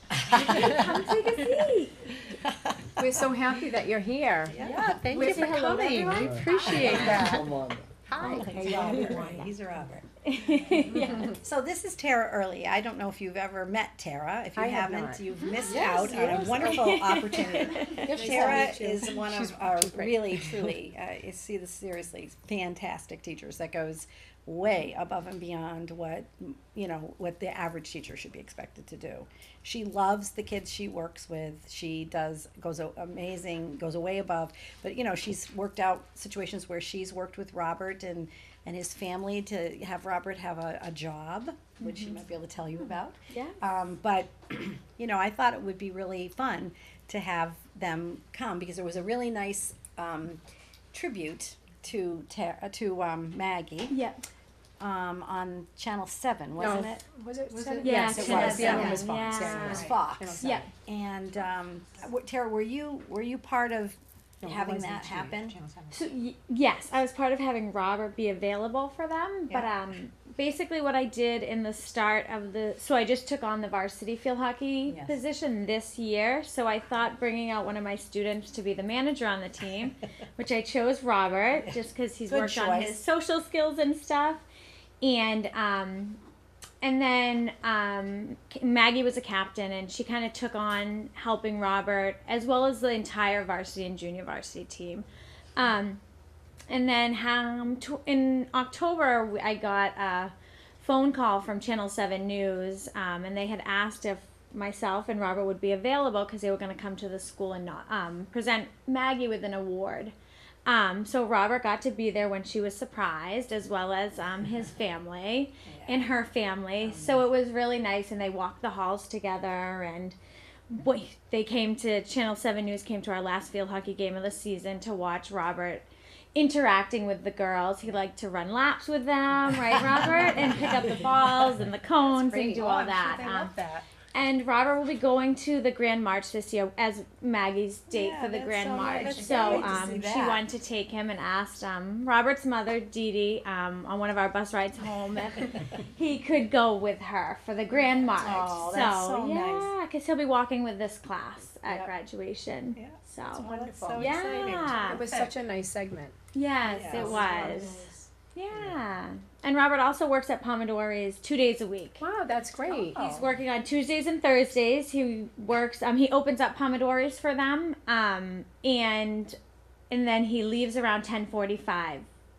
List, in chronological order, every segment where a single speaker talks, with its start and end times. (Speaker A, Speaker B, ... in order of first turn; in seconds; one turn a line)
Speaker A: 0.1-0.9
Speaker B: 0.4-2.0
Speaker A: 2.2-3.0
Speaker C: 3.0-4.6
Speaker A: 4.5-7.3
Speaker B: 4.6-7.4
Speaker D: 5.1-5.5
Speaker C: 5.1-7.5
Speaker D: 6.1-9.4
Speaker A: 8.2-10.1
Speaker B: 8.2-9.5
Speaker C: 8.2-9.1
Speaker B: 10.2-11.3
Speaker A: 10.7-50.4
Speaker C: 14.6-16.9
Speaker B: 15.3-15.9
Speaker B: 16.6-18.7
Speaker C: 18.0-20.7
Speaker B: 41.8-42.2
Speaker A: 50.9-54.0
Speaker B: 53.9-54.2
Speaker A: 54.8-57.0
Speaker C: 56.6-60.7
Speaker A: 57.8-65.6
Speaker B: 57.8-59.9
Speaker D: 57.9-59.0
Speaker B: 60.4-60.7
Speaker C: 64.4-66.1
Speaker B: 65.9-84.4
Speaker A: 69.5-69.7
Speaker A: 74.9-75.2
Speaker A: 82.3-83.0
Speaker B: 85.0-86.2
Speaker B: 86.8-95.0
Speaker B: 95.6-96.0
Speaker B: 96.7-110.1
Speaker B: 110.7-120.2
Speaker A: 115.7-116.1
Speaker A: 116.8-117.2
Speaker B: 120.7-133.6
Speaker A: 132.0-133.8
Speaker B: 134.1-155.1
Speaker A: 137.9-140.4
Speaker A: 147.8-149.7
Speaker A: 151.7-151.9
Speaker A: 152.8-155.3
Speaker C: 153.4-156.2
Speaker B: 156.3-162.0
Speaker A: 156.7-157.4
Speaker C: 156.9-158.0
Speaker C: 162.0-163.3
Speaker B: 162.8-169.4
Speaker B: 169.9-172.1